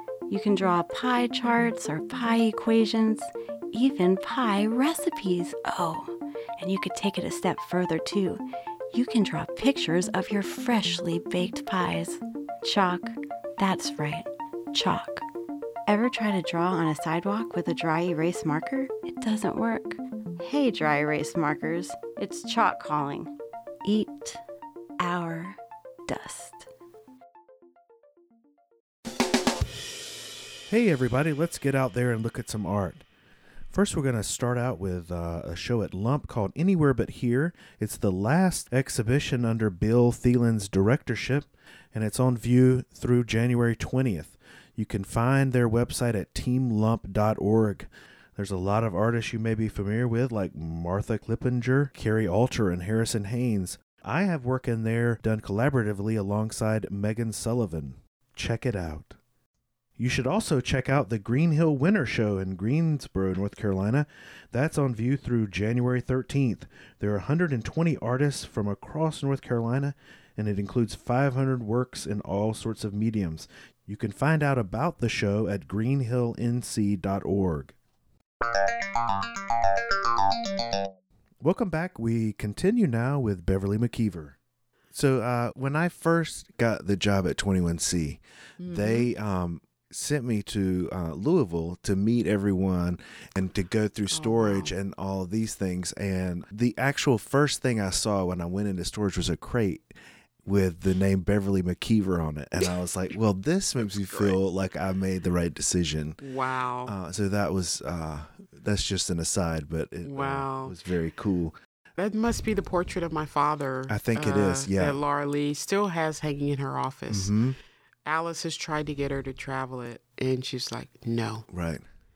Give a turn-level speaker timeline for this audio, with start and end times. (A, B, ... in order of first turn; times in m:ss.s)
0:00.3-0:15.2 A
0:15.9-0:23.3 A
0:23.8-0:24.4 A
0:25.0-0:26.7 A
0:30.7-0:33.0 B
0:33.7-0:59.2 B
1:00.0-1:17.7 B
1:21.4-1:24.4 B
1:24.9-1:39.9 B
1:28.6-1:29.1 C
1:34.1-1:34.7 C
1:40.4-1:46.2 B
1:44.1-1:44.4 C
1:46.2-1:47.0 C
1:46.9-1:51.6 B
1:50.0-1:50.7 C
1:52.0-1:57.3 C
1:53.9-1:55.0 B
1:57.1-1:57.6 B
1:58.0-2:01.4 C
2:01.5-2:01.8 B